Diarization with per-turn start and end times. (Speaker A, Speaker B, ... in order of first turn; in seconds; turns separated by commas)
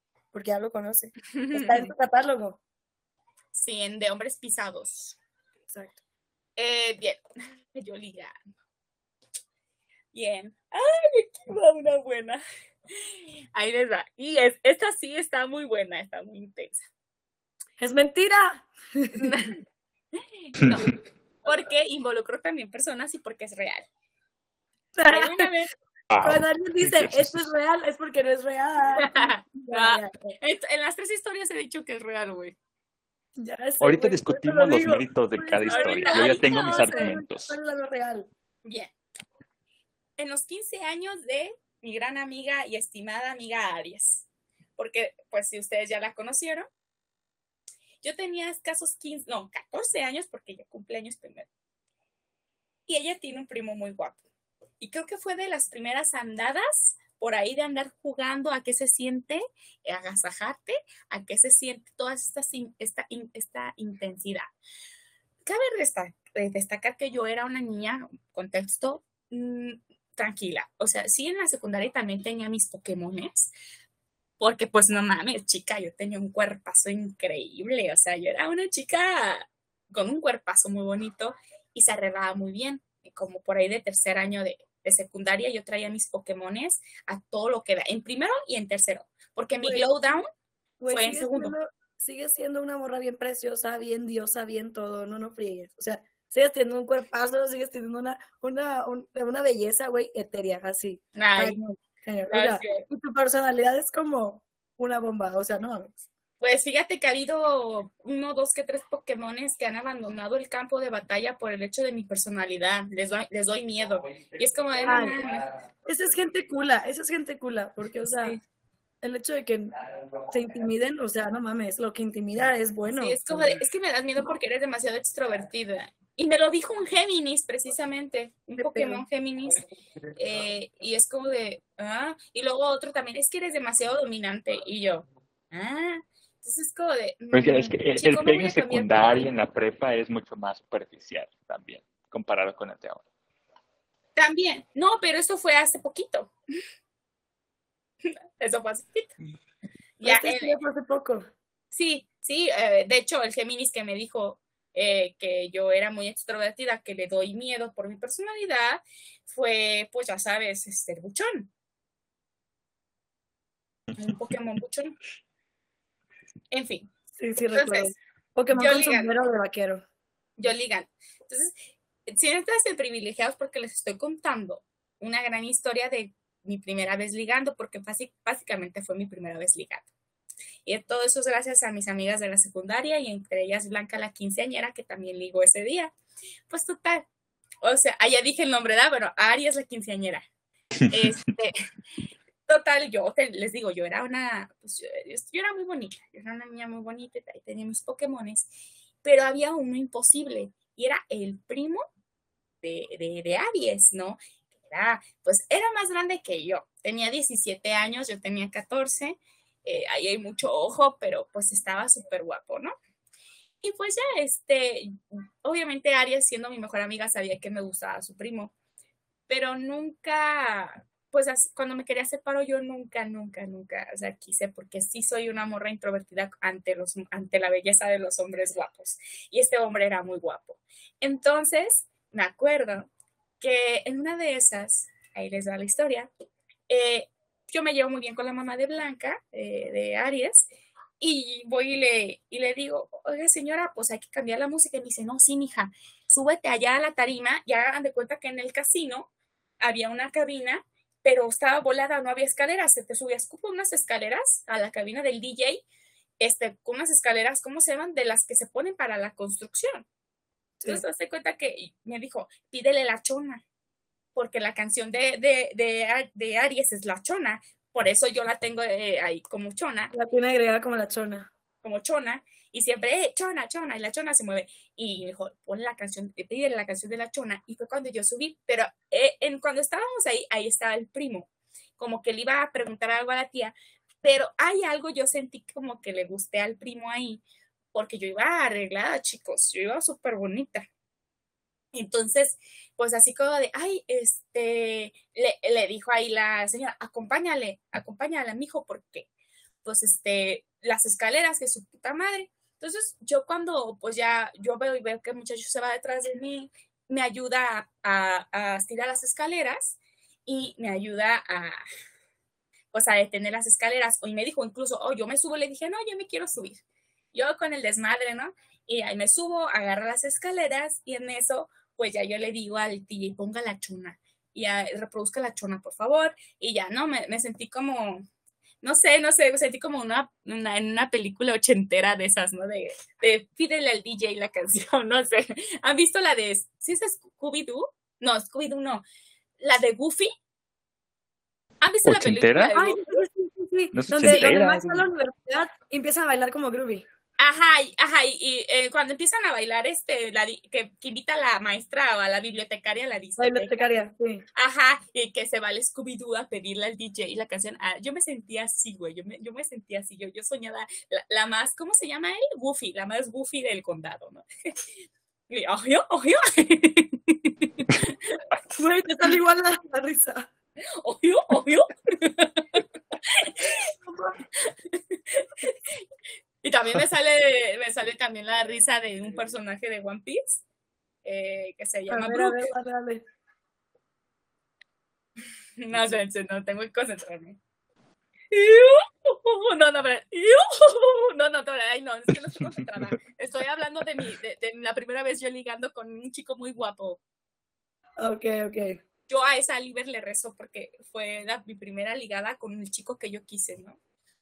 Speaker A: 0.3-2.6, Speaker B: 1.3-1.9, Speaker B: 3.5-5.2, Speaker A: 5.7-6.0, Speaker B: 6.6-7.2, Speaker B: 7.7-8.3, Speaker B: 10.1-12.4, Speaker B: 13.0-16.8, Speaker A: 17.8-19.3, Speaker B: 19.2-19.6, Speaker B: 20.2-23.9, Speaker A: 24.9-25.5, Speaker B: 25.1-25.7, Speaker C: 26.1-27.4, Speaker A: 26.2-30.4, Speaker B: 28.9-32.5, Speaker A: 33.4-38.3, Speaker C: 33.8-37.5, Speaker B: 35.7-37.1, Speaker B: 38.6-38.9, Speaker B: 40.2-44.2, Speaker B: 44.8-46.7, Speaker B: 48.0-51.5, Speaker B: 52.9-54.2, Speaker B: 54.8-64.5, Speaker B: 65.4-73.5, Speaker B: 74.4-90.3, Speaker A: 89.6-89.9, Speaker A: 90.8-106.0, Speaker B: 90.9-91.5, Speaker B: 101.2-101.6, Speaker B: 102.3-102.8, Speaker B: 106.4-115.5, Speaker A: 114.8-115.2, Speaker A: 115.8-118.4, Speaker B: 118.1-118.4, Speaker A: 119.0-119.8, Speaker A: 120.3-123.5, Speaker B: 122.9-129.6, Speaker A: 128.6-129.0, Speaker B: 130.1-139.2, Speaker C: 137.3-143.0, Speaker B: 144.2-146.3, Speaker B: 148.0-149.1, Speaker B: 150.0-150.6, Speaker A: 150.0-151.3, Speaker B: 151.7-161.5, Speaker B: 163.9-164.9, Speaker B: 166.5-166.9, Speaker A: 167.2-169.8, Speaker B: 167.5-167.9, Speaker B: 168.5-169.1, Speaker B: 170.4-171.5, Speaker B: 172.1-179.9, Speaker B: 180.7-185.9, Speaker B: 186.5-187.0, Speaker B: 187.6-190.2, Speaker B: 190.9-191.5, Speaker B: 192.5-198.5, Speaker B: 199.0-201.8, Speaker B: 202.6-212.7, Speaker B: 213.6-218.5, Speaker B: 219.3-232.9, Speaker B: 233.4-236.1, Speaker B: 236.7-240.5, Speaker B: 241.0-255.6, Speaker B: 256.2-259.9, Speaker B: 260.6-263.4, Speaker B: 264.1-269.9, Speaker A: 269.9-271.3, Speaker B: 271.6-287.2, Speaker B: 287.7-290.7, Speaker B: 291.7-299.1, Speaker B: 299.6-311.6, Speaker B: 312.7-316.6, Speaker B: 317.1-328.1, Speaker B: 328.6-338.8, Speaker B: 339.4-340.1, Speaker B: 341.6-343.0, Speaker C: 341.8-342.6, Speaker A: 342.6-346.8, Speaker C: 343.7-344.9, Speaker B: 347.2-353.8, Speaker A: 353.2-354.2, Speaker B: 354.3-364.2, Speaker B: 365.3-368.2, Speaker A: 368.5-370.3, Speaker B: 370.6-373.7, Speaker A: 373.9-374.2, Speaker B: 374.4-375.7, Speaker B: 376.4-380.4, Speaker B: 381.0-382.4, Speaker A: 381.9-383.0, Speaker B: 385.6-387.4, Speaker B: 388.3-397.0, Speaker A: 398.0-398.8, Speaker B: 399.1-403.8